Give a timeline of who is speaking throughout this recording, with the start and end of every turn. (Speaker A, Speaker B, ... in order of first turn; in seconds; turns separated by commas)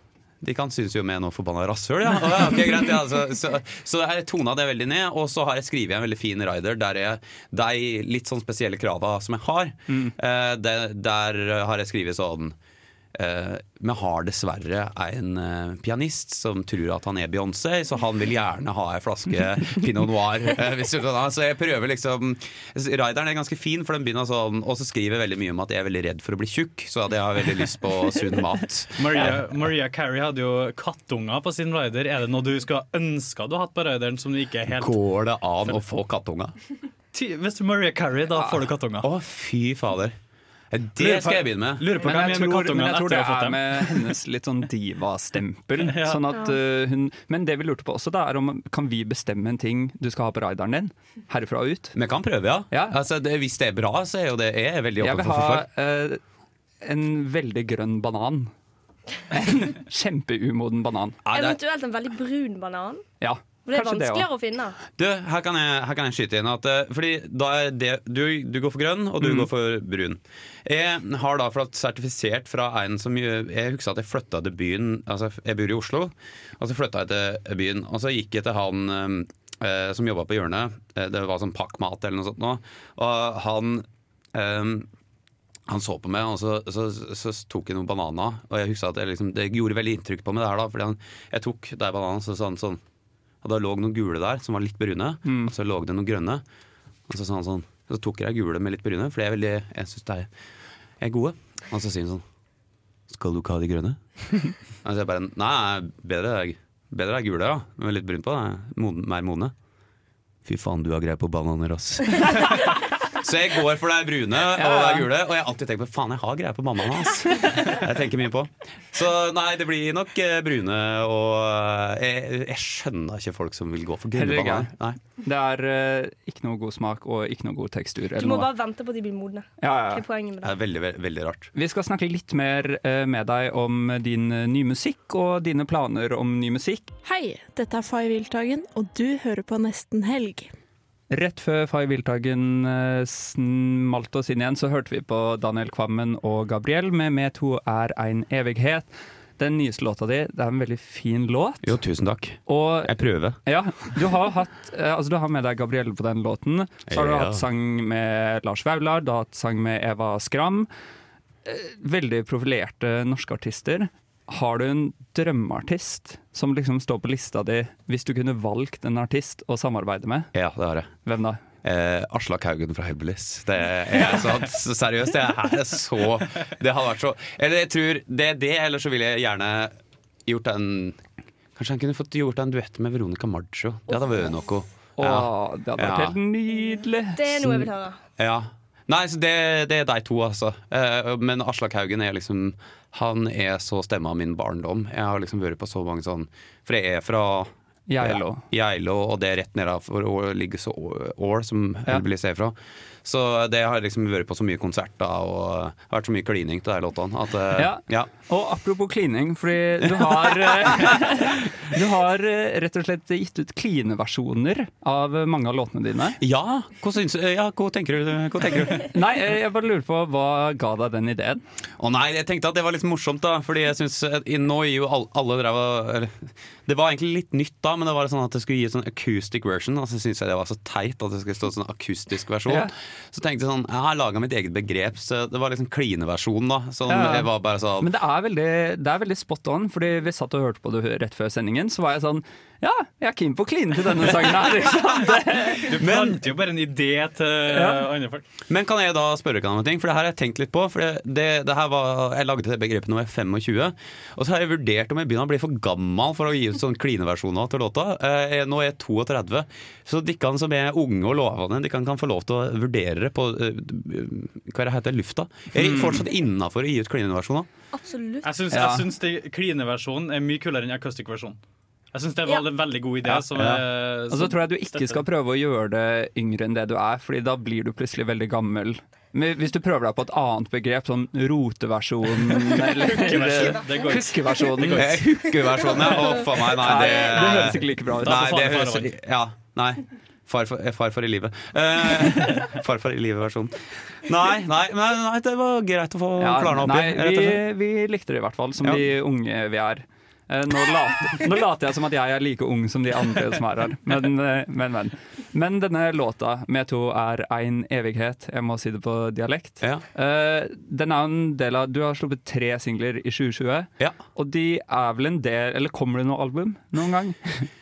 Speaker A: 0.4-12.6, Speaker A: 13.1-29.5, Speaker B: 29.0-35.0, Speaker A: 34.7-36.5, Speaker B: 37.1-39.1, Speaker A: 39.0-40.2, Speaker A: 40.7-42.0, Speaker B: 41.0-44.1, Speaker C: 42.0-52.0, Speaker B: 45.8-46.2, Speaker A: 52.0-55.7, Speaker C: 52.7-53.0, Speaker C: 55.0-56.2, Speaker C: 56.8-58.5, Speaker C: 59.3-61.2, Speaker A: 61.2-61.6, Speaker D: 61.3-63.0, Speaker C: 63.2-64.3, Speaker D: 63.7-64.8, Speaker A: 65.0-84.9, Speaker C: 69.2-69.5, Speaker A: 85.7-92.8, Speaker A: 93.4-96.4, Speaker C: 95.3-95.5, Speaker A: 97.1-100.3, Speaker A: 101.0-102.2, Speaker A: 103.1-109.5, Speaker A: 110.5-125.0, Speaker C: 114.5-115.1, Speaker C: 124.2-124.7, Speaker C: 125.2-128.5, Speaker D: 128.2-130.6, Speaker C: 129.6-130.0, Speaker A: 130.4-131.5, Speaker C: 131.6-136.9, Speaker E: 137.0-140.5, Speaker C: 141.1-151.8, Speaker A: 151.6-153.4, Speaker C: 152.5-160.7, Speaker A: 156.9-157.5, Speaker C: 161.4-170.3, Speaker A: 170.3-170.9, Speaker C: 171.1-171.4, Speaker A: 171.6-179.7, Speaker A: 180.3-181.0, Speaker A: 181.6-186.2, Speaker C: 185.0-187.6, Speaker D: 187.2-188.0, Speaker A: 187.4-208.1, Speaker C: 197.9-198.4, Speaker C: 207.6-216.2, Speaker A: 209.8-211.1, Speaker A: 216.2-218.9, Speaker C: 218.9-221.4, Speaker A: 221.8-237.9, Speaker C: 236.9-245.7, Speaker B: 245.5-248.2, Speaker A: 245.8-246.2, Speaker C: 247.5-247.8, Speaker A: 248.5-267.5, Speaker C: 265.6-266.0, Speaker D: 267.7-268.3, Speaker B: 268.2-271.4, Speaker C: 268.5-268.9, Speaker B: 271.9-275.0, Speaker A: 273.1-273.6, Speaker C: 274.1-285.0, Speaker B: 282.2-286.1, Speaker A: 284.8-297.4, Speaker C: 286.6-288.3, Speaker B: 287.3-288.9, Speaker C: 296.2-317.5